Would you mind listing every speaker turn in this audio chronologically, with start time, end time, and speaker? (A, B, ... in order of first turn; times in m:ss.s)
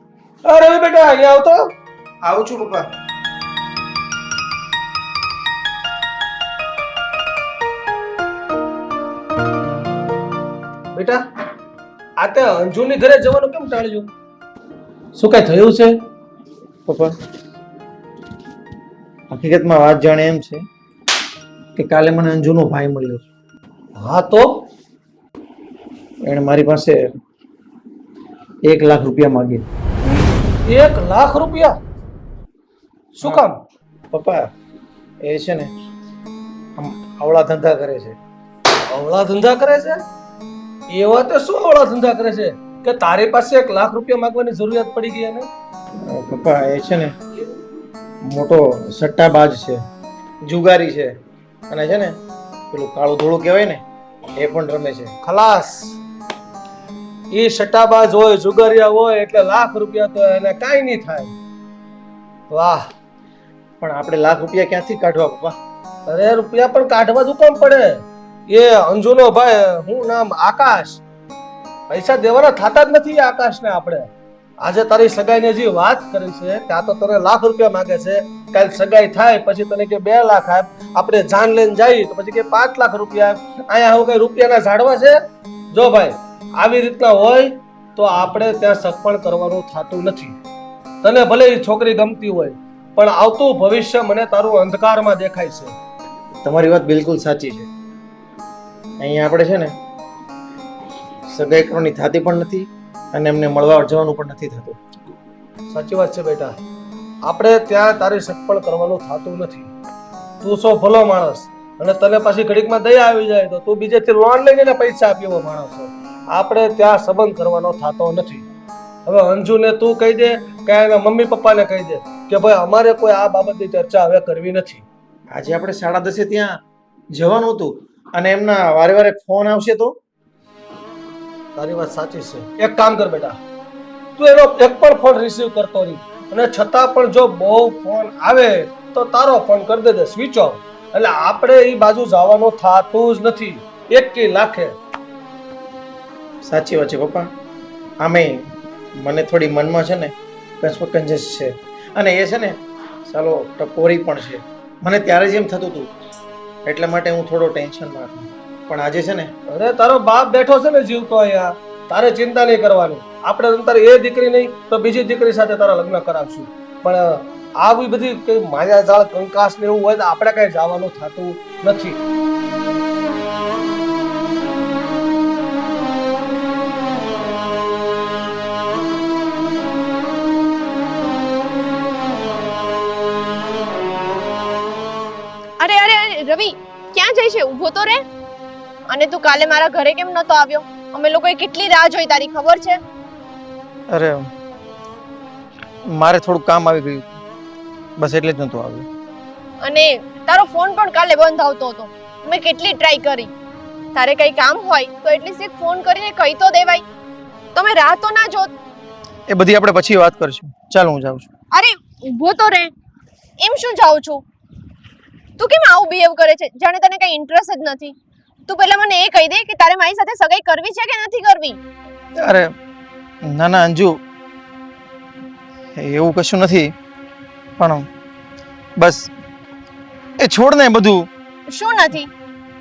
0:00.4-0:01.7 A
0:02.2-0:02.9 B
0:10.9-0:11.2 A
0:12.2-0:14.1 A
0:15.2-0:15.9 A
0:16.8-0:17.2 B
0:19.3-0:20.6 B
0:21.7-0:23.2 B
0:24.0-0:24.7 A
0:26.2-0:27.1 B
0:28.6-0:29.6 B
0:30.6-0:31.8 A
0:33.1-0:33.6 A
0:34.1-0:34.5 B
0:35.2-0:35.7 B
0:36.8-0:38.2 B
0:38.9-0:40.0 A
0:40.9-0:45.5 A
0:46.0-0:47.1 B
0:48.2-0:49.8 B
0:50.4-0:51.1 B
0:51.7-0:52.2 B
0:52.7-0:53.8 B
0:54.3-0:55.1 B
0:55.2-0:56.0 A
0:57.3-1:01.3 A
1:02.5-1:02.9 A
1:03.8-1:05.6 B
1:06.1-1:11.0 A
1:11.9-1:14.1 A
1:14.6-1:25.2 A
1:25.7-1:30.4 A
1:31.0-1:35.7 A
1:36.4-1:37.7 B
1:39.0-1:39.7 B
1:41.2-1:44.8 B
1:45.7-1:46.6 A
1:47.2-1:49.7 A
1:50.4-1:58.4 A
1:59.0-2:04.8 A
2:05.3-2:06.6 B
2:07.1-2:10.0 B
2:11.6-2:13.4 A
2:14.2-2:24.7 A
2:26.4-2:27.3 B
2:28.0-2:35.9 B
2:36.6-2:39.3 B
2:39.5-2:52.0 A
3:05.6-3:08.0 C
3:08.9-3:12.8 C
3:13.9-3:14.3 B
3:15.9-3:17.2 B
3:18.0-3:18.9 B
3:19.6-3:23.3 C
3:23.9-3:26.8 C
3:27.5-3:28.5 C
3:29.3-3:31.3 B
3:31.5-3:32.7 C
3:33.4-3:34.2 C
3:35.4-3:37.9 C
3:38.5-3:41.6 C
3:42.2-3:42.5 B
3:43.2-3:44.0 B
3:45.8-3:46.7 B
3:47.6-3:47.9 B
3:48.8-3:49.1 B
3:50.2-3:51.1 B
3:51.5-3:52.1 C